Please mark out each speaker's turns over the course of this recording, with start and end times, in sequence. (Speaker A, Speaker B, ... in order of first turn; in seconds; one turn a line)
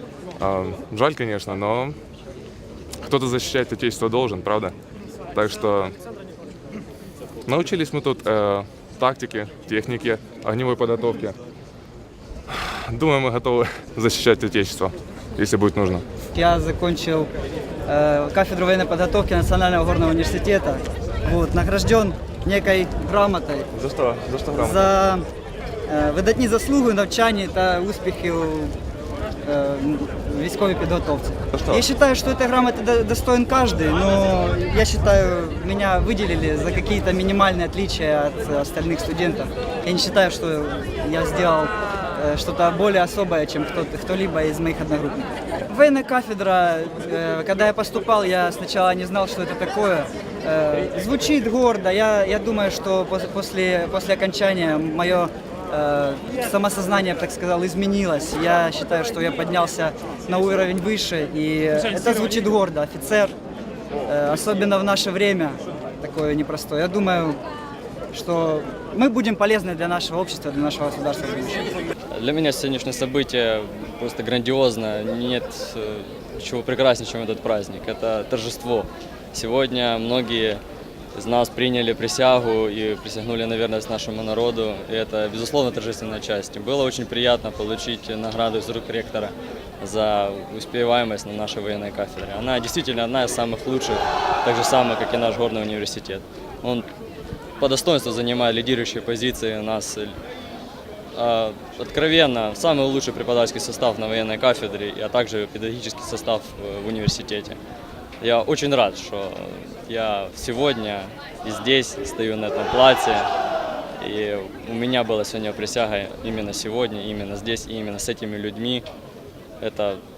Speaker A: 0.4-2.0
Speaker A: 3.0-4.7
Speaker A: 5.3-5.9
Speaker A: 7.5-11.3
Speaker A: 12.5-16.0
Speaker B: 16.4-17.3
Speaker B: 17.9-23.7
Speaker A: 23.7-24.9
Speaker B: 24.6-25.2
Speaker B: 25.9-28.8
Speaker B: 29.4-63.3
Speaker A: 31.5-31.9
Speaker B: 64.1-67.4
Speaker B: 68.1-71.7
Speaker C: 72.1-80.6
Speaker C: 81.1-96.9
Speaker C: 97.6-100.2
Speaker C: 101.1-107.6
Speaker C: 108.2-113.2
Speaker C: 114.0-118.8
Speaker C: 119.6-120.0